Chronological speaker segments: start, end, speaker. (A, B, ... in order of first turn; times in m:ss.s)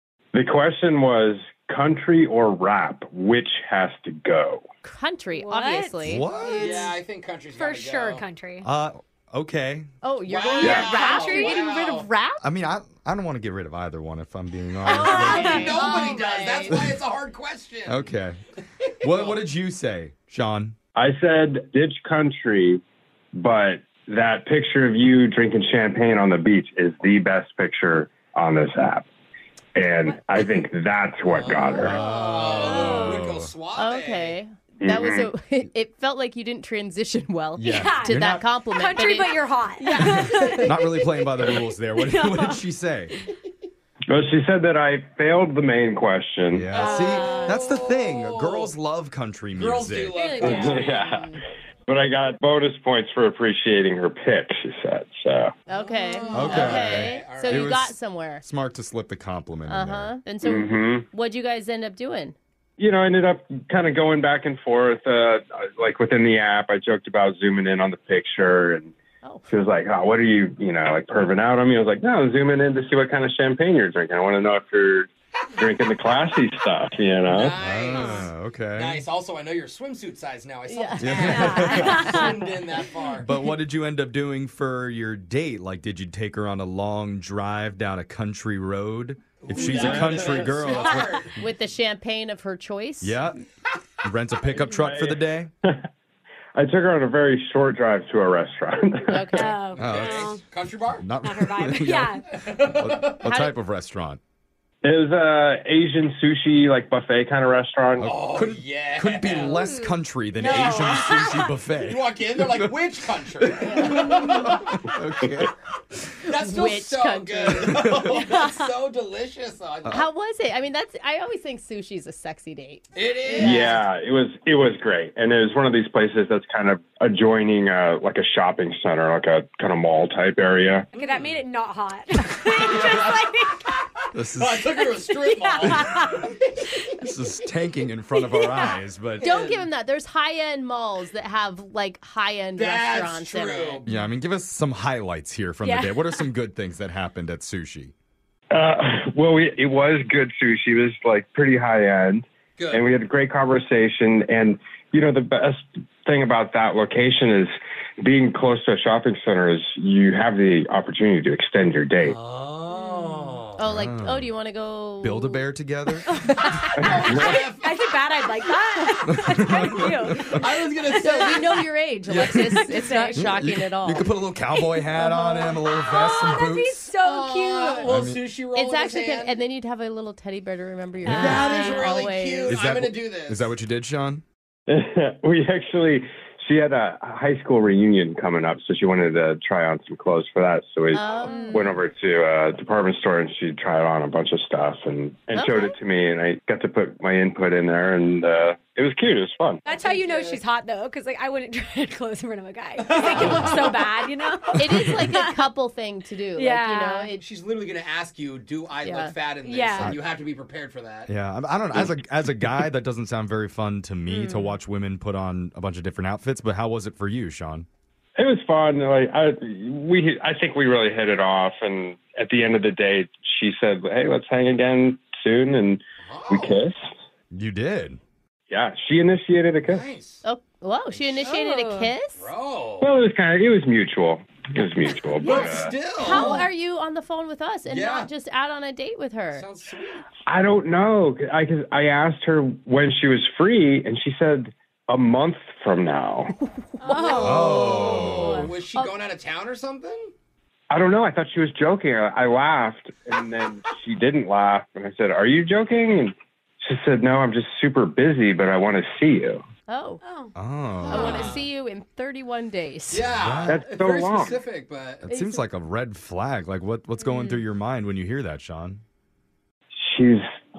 0:00.3-0:04.6 A
0:04.8-0:06.9 B
0:05.4-0:06.9 C
0:06.0-0:06.6 D
0:06.6-0:08.2 E
0:07.5-0:08.7 C
0:08.6-0:09.9 D
0:10.0-0:12.4 B
0:10.3-0:12.1 E
0:10.6-0:11.7 C
0:12.4-0:15.7 D
0:14.9-0:16.8 B
0:14.9-0:18.0 E
0:15.0-0:15.9 C
0:16.7-0:17.0 D
0:17.9-0:18.4 D
0:19.0-0:20.8 D
0:19.0-0:19.4 E
0:21.0-0:22.8 A
0:23.3-0:29.1 A
0:29.8-0:32.0 A
0:31.3-0:34.4 E
0:31.8-0:33.5 D
0:32.6-0:33.2 C
0:33.8-0:40.7 B
0:34.8-0:35.3 A
0:37.6-0:38.4 D
0:37.7-0:38.2 C
0:38.7-0:40.7 C
0:40.0-0:43.1 D
0:42.0-0:42.6 C
0:44.1-0:46.7 A
0:46.5-0:50.1 D
0:46.7-0:48.7 E
0:46.7-0:47.5 C
0:49.6-0:50.9 E
0:50.2-0:50.9 C
0:50.4-0:51.2 A
0:50.5-0:51.3 B
0:51.9-0:55.5 A
0:55.7-0:58.4 B
0:56.1-0:57.7 E
0:56.3-1:00.1 D
0:59.7-1:02.4 B
1:00.4-1:01.0 A
1:02.8-1:08.9 A
1:09.5-1:17.5 A
1:17.3-1:23.3 E
1:17.6-1:19.0 D
1:20.7-1:22.3 B
1:21.0-1:22.1 D
1:21.2-1:22.3 C
1:23.2-1:31.3 D
1:29.4-1:31.3 E
1:31.4-1:33.2 B
1:33.0-1:33.4 D
1:34.0-1:35.5 D
1:34.7-1:35.8 A
1:36.6-1:39.3 A
1:39.1-1:39.5 B
1:39.3-1:40.4 C
1:39.8-1:40.3 D
1:39.8-1:41.0 E
1:41.0-1:44.2 D
1:41.2-1:42.2 C
1:42.3-1:43.2 E
1:43.2-1:43.5 B
1:44.8-1:48.1 A
1:48.0-1:52.8 D
1:48.0-1:49.6 E
1:50.4-1:51.4 C
1:50.4-1:51.3 E
1:51.8-1:54.6 E
1:53.4-1:55.5 D
1:56.2-2:00.0 E
1:56.3-1:58.4 B
1:59.9-2:02.8 B
2:02.9-2:03.8 E
2:03.4-2:03.8 B
2:03.4-2:10.9 A
2:10.9-2:11.3 E
2:10.9-2:13.6 C
2:12.5-2:13.2 E
2:14.1-2:14.7 D
2:14.4-2:16.3 E
2:15.2-2:16.0 C
2:15.6-2:15.9 D
2:17.0-2:19.2 D
2:19.2-2:23.8 B
2:22.6-2:24.0 E
2:23.8-2:27.9 D
2:25.6-2:26.0 C
2:28.5-2:42.2 A
2:32.6-2:32.9 E
2:42.0-2:43.6 E
2:43.6-2:45.4 B
2:43.6-2:44.3 D
2:45.0-2:46.1 D
2:46.8-2:47.9 E
2:47.1-2:50.4 C
2:49.1-2:50.4 D
2:50.3-2:51.6 E
2:50.9-2:53.2 C
2:51.0-2:54.0 B
2:52.1-2:56.9 D
2:54.6-2:58.0 C
2:57.0-2:59.4 E
2:57.8-2:58.2 D
2:58.5-3:02.6 B
3:01.0-3:01.5 D
3:01.2-3:03.5 E
3:02.5-3:04.2 D
3:04.7-3:19.6 A
3:10.9-3:11.7 B
3:11.2-3:11.8 C
3:15.3-3:15.7 B
3:19.6-3:25.4 C
3:19.7-3:20.4 E
3:22.8-3:23.8 E
3:23.2-3:23.5 D
3:24.5-3:27.2 B
3:26.4-3:27.1 C
3:27.2-3:31.1 E
3:28.8-3:29.1 B
3:29.4-3:29.9 C
3:31.1-3:37.7 D
3:38.2-3:46.8 A
3:46.0-3:46.6 E
3:47.3-3:48.0 D
3:48.5-3:49.8 A
3:49.7-3:50.2 E
3:50.2-3:52.2 B
3:51.2-3:51.9 C
3:52.2-3:52.9 E
3:52.8-3:55.7 A
3:55.2-3:56.4 E
3:56.0-3:59.4 B
3:57.7-3:58.1 E
3:59.3-4:00.0 E
4:00.3-4:06.3 A
4:06.8-4:08.8 B
4:06.8-4:08.2 C
4:07.2-4:08.5 D
4:07.2-4:10.1 E
4:10.7-4:19.4 A
4:19.7-4:20.0 B
4:20.0-4:20.3 C
4:20.4-4:21.3 D
4:20.8-4:21.4 E
4:20.9-4:23.1 B
4:22.9-4:25.0 E
4:23.1-4:23.6 D
4:23.5-4:24.4 A
4:25.0-4:28.8 D
4:25.1-4:25.4 B
4:27.0-4:27.4 C
4:29.8-4:30.3 A